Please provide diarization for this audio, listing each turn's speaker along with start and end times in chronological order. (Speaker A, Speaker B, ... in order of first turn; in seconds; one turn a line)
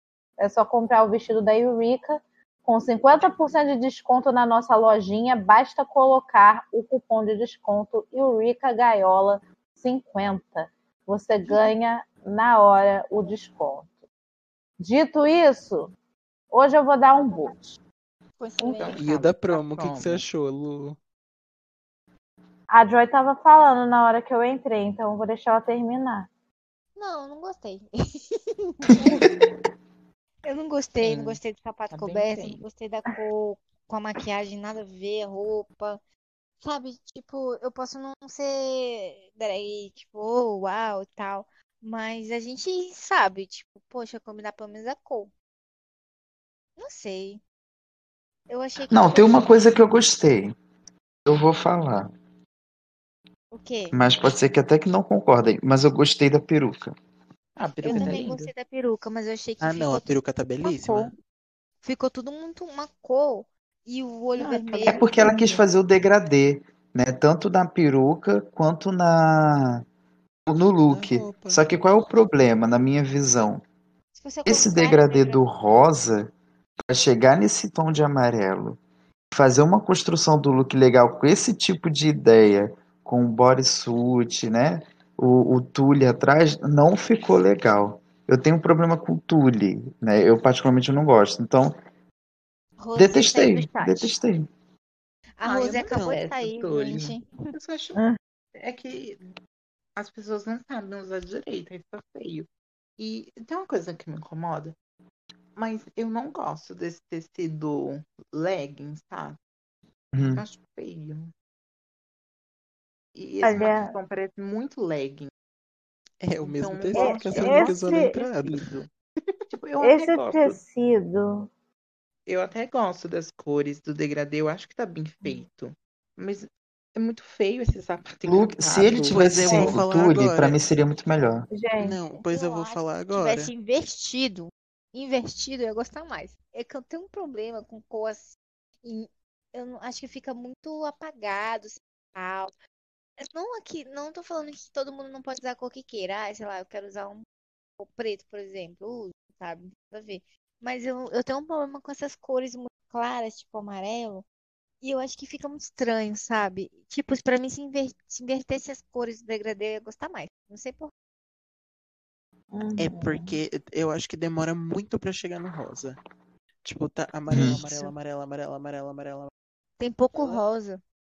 Speaker A: 0.4-13.9
Speaker A: 14.8-15.9
Speaker A: 16.5-17.8
Speaker B: 18.4-19.0
Speaker A: 18.6-18.9
Speaker C: 18.6-20.3
Speaker D: 19.0-21.0
Speaker A: 22.7-26.3
Speaker B: 27.0-29.3
Speaker B: 30.4-36.0
Speaker C: 31.0-32.6
Speaker B: 36.6-45.3
Speaker B: 46.8-47.4
Speaker B: 48.5-49.5
Speaker E: 48.9-50.5
Speaker E: 51.3-52.1
Speaker B: 53.5-54.0
Speaker E: 53.9-57.0
Speaker C: 57.6-58.5
Speaker B: 57.8-60.1
Speaker A: 57.9-58.2
Speaker D: 59.6-61.1
Speaker B: 60.6-61.1
Speaker B: 61.8-65.1
Speaker C: 64.4-65.7
Speaker E: 64.9-69.8
Speaker E: 70.5-73.6
Speaker D: 70.9-71.6
Speaker B: 74.1-75.4
Speaker E: 74.5-76.3
Speaker E: 76.9-78.8
Speaker E: 79.3-91.8
Speaker B: 92.8-94.1
Speaker E: 93.0-94.5
Speaker B: 95.4-97.5
Speaker C: 95.5-98.0
Speaker D: 95.6-96.2
Speaker C: 98.6-99.2
Speaker C: 100.0-104.8
Speaker C: 105.6-109.4
Speaker E: 110.1-110.4
Speaker C: 110.3-111.3
Speaker C: 113.2-115.3
Speaker A: 113.4-114.0
Speaker D: 116.2-118.6
Speaker C: 116.4-118.9
Speaker A: 116.9-118.1
Speaker C: 119.5-120.6
Speaker A: 119.8-121.5
Speaker C: 122.3-129.2
Speaker E: 128.3-131.5
Speaker D: 129.1-130.6
Speaker A: 129.5-129.7
Speaker A: 131.5-132.0
Speaker D: 131.8-133.5
Speaker B: 132.1-142.5
Speaker B: 143.2-147.3
Speaker B: 147.8-154.3
Speaker B: 154.8-160.9
Speaker A: 162.5-163.4
Speaker D: 162.8-166.0
Speaker D: 166.6-169.3
Speaker E: 167.3-167.6
Speaker B: 167.3-167.9
Speaker B: 169.8-170.8
Speaker D: 170.1-170.4